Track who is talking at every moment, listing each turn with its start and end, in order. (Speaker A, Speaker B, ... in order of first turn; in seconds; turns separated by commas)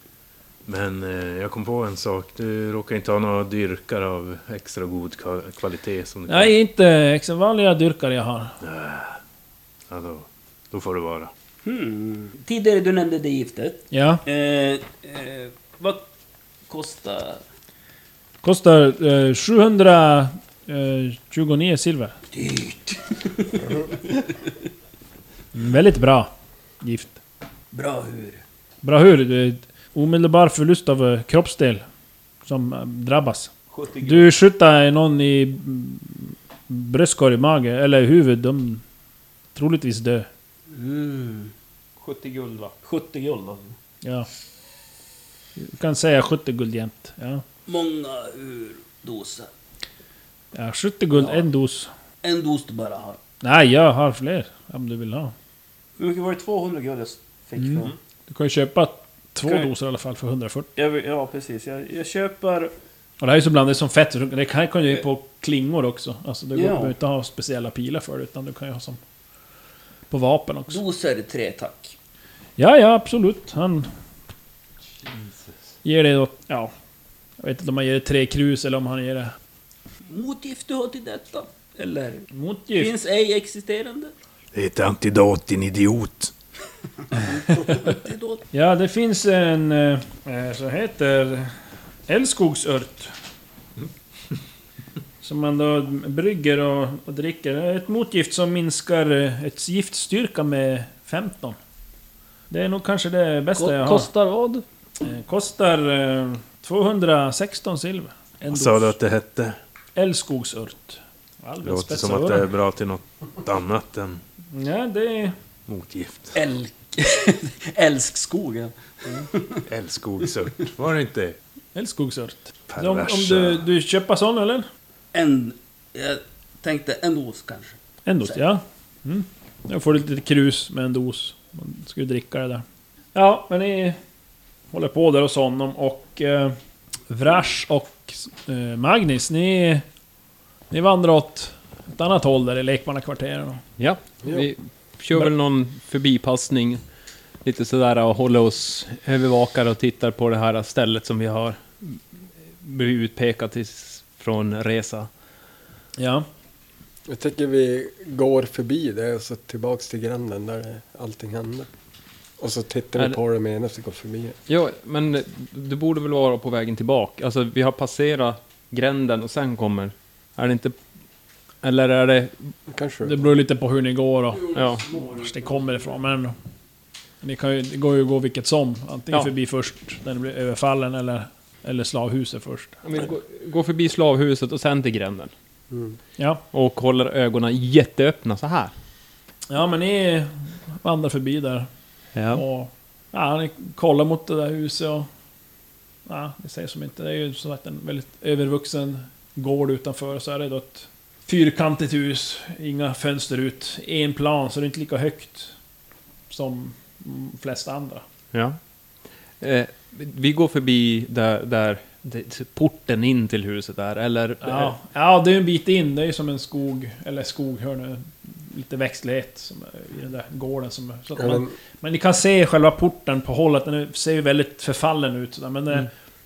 Speaker A: 0.7-6.5, Speaker B: 6.3-8.6, Speaker A: 8.6-9.2, Speaker A: 9.9-11.3, Speaker C: 11.6-16.0, Speaker B: 13.9-14.2, Speaker C: 16.7-17.4, Speaker B: 18.4-22.1, Speaker C: 22.3-23.9, Speaker B: 25.5-27.2, Speaker C: 27.7-28.4, Speaker B: 28.8-31.8, Speaker B: 32.4-38.8, Speaker D: 33.7-34.3, Speaker B: 39.5-40.3, Speaker C: 40.7-41.5, Speaker D: 42.0-42.7, Speaker C: 42.8-43.7, Speaker B: 45.6-47.4, Speaker C: 47.7-49.5, Speaker B: 50.5-51.9, Speaker C: 52.2-53.2, Speaker B: 53.4-55.3, Speaker C: 56.0-57.9, Speaker B: 57.6-60.7, Speaker C: 59.4-59.7, Speaker C: 60.8-62.7, Speaker B: 63.2-69.0, Speaker C: 66.5-66.9, Speaker B: 70.1-70.8, Speaker C: 70.7-71.9, Speaker B: 72.6-73.9, Speaker B: 75.8-76.7, Speaker B: 77.4-79.3, Speaker C: 80.1-84.1, Speaker B: 82.3-82.9, Speaker A: 84.5-86.3, Speaker C: 87.1-88.4, Speaker B: 88.5-91.5, Speaker B: 92.1-93.1, Speaker B: 95.2-101.6, Speaker B: 102.5-104.1, Speaker C: 103.6-104.6, Speaker B: 105.0-109.0, Speaker A: 108.5-109.5, Speaker B: 110.0-112.5, Speaker A: 111.6-114.2, Speaker B: 114.5-115.3, Speaker A: 115.7-116.3, Speaker C: 116.3-119.6, Speaker A: 119.7-121.4, Speaker B: 121.7-124.7, Speaker A: 122.7-123.6, Speaker C: 125.1-128.4, Speaker B: 128.1-132.6, Speaker B: 133.1-134.0, Speaker B: 134.7-136.6, Speaker B: 137.1-139.8, Speaker B: 140.7-143.6, Speaker D: 143.8-146.8, Speaker D: 147.4-152.0, Speaker D: 152.6-155.1, Speaker B: 156.0-156.2, Speaker E: 157.1-161.7, Speaker E: 162.4-164.3, Speaker D: 164.5-170.8, Speaker D: 171.6-172.5, Speaker E: 172.7-173.2, Speaker B: 173.0-176.3, Speaker C: 174.5-175.2, Speaker D: 174.5-174.8, Speaker B: 177.2-182.8, Speaker D: 182.8-185.3, Speaker D: 186.5-188.7, Speaker B: 189.5-191.7, Speaker D: 192.1-192.4, Speaker B: 192.3-195.1, Speaker B: 196.1-205.5, Speaker B: 206.3-208.0, Speaker D: 208.3-208.6, Speaker D: 209.4-214.8, Speaker B: 214.4-225.9, Speaker E: 221.2-221.5